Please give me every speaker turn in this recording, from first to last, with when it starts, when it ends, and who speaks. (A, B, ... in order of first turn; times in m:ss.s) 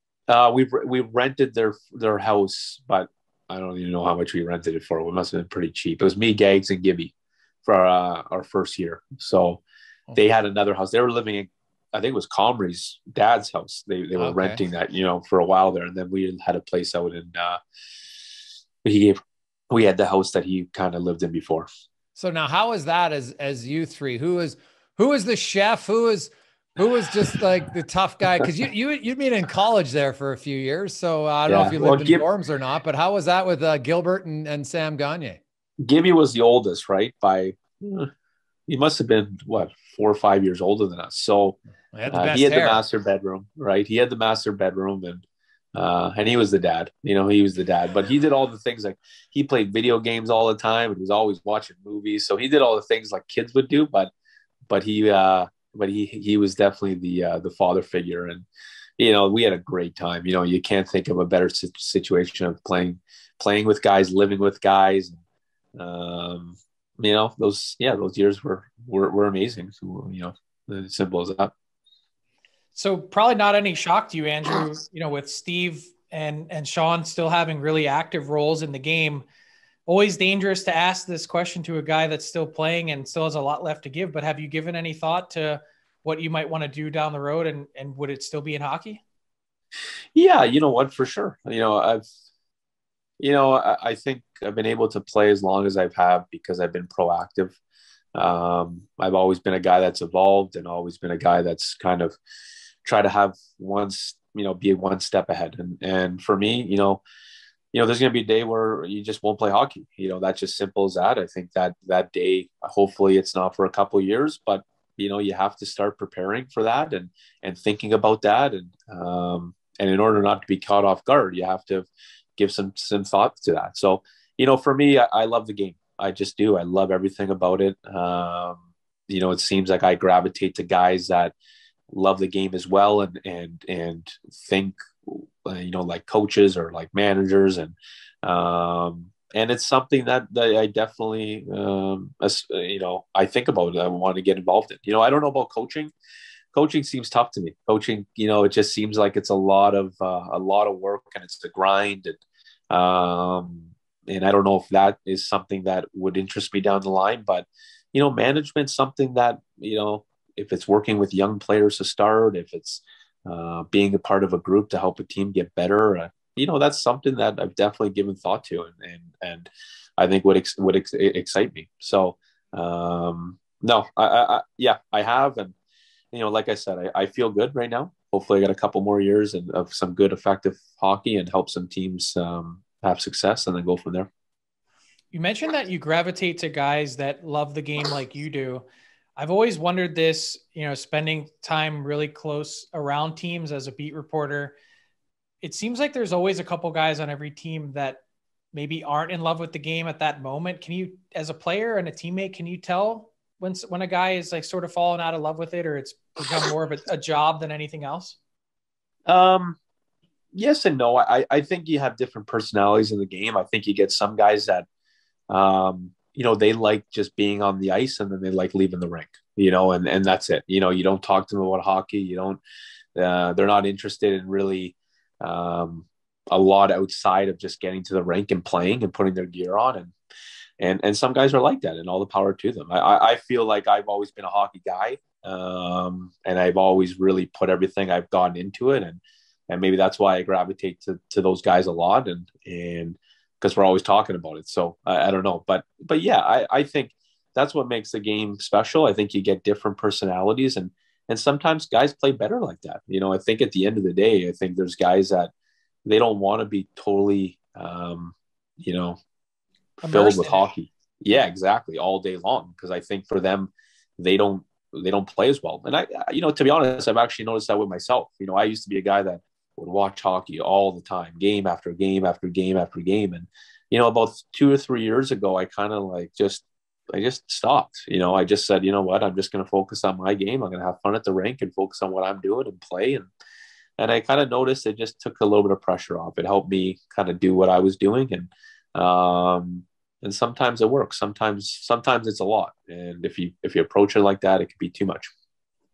0:00.3-0:07.1 A
0:07.6-0:09.6 A
0:10.2-0:17.6 A
0:14.2-0:14.6 B
0:18.8-0:21.7 A
0:22.2-0:35.4 B
0:31.5-0:32.2 A
0:35.8-0:38.1 A
0:38.7-0:41.6 A
0:42.0-0:42.8 B
0:42.1-0:45.2 A
0:45.8-0:54.1 A
0:54.7-0:58.5 A
0:59.0-1:05.2 A
1:05.8-1:11.5 A
1:12.8-1:19.2 C
1:19.9-1:29.0 C
1:30.2-1:32.1 A
1:33.2-1:37.6 A
1:38.2-1:42.2 A
1:42.8-1:47.0 A
1:47.7-2:11.3 A
2:11.9-2:25.9 A
2:26.5-2:55.5 A
2:56.1-3:04.1 A
3:05.1-3:08.6 C
3:09.2-3:14.6 C
3:15.4-3:18.0 C
3:18.5-3:28.2 C
3:29.1-3:29.6 A
3:30.3-3:34.7 A
3:35.3-3:42.4 A
3:43.0-3:49.9 A
3:50.6-4:15.3 A
4:15.8-4:19.0 A
4:19.8-4:20.4 C
4:19.8-4:43.1 A
4:43.8-4:55.1 A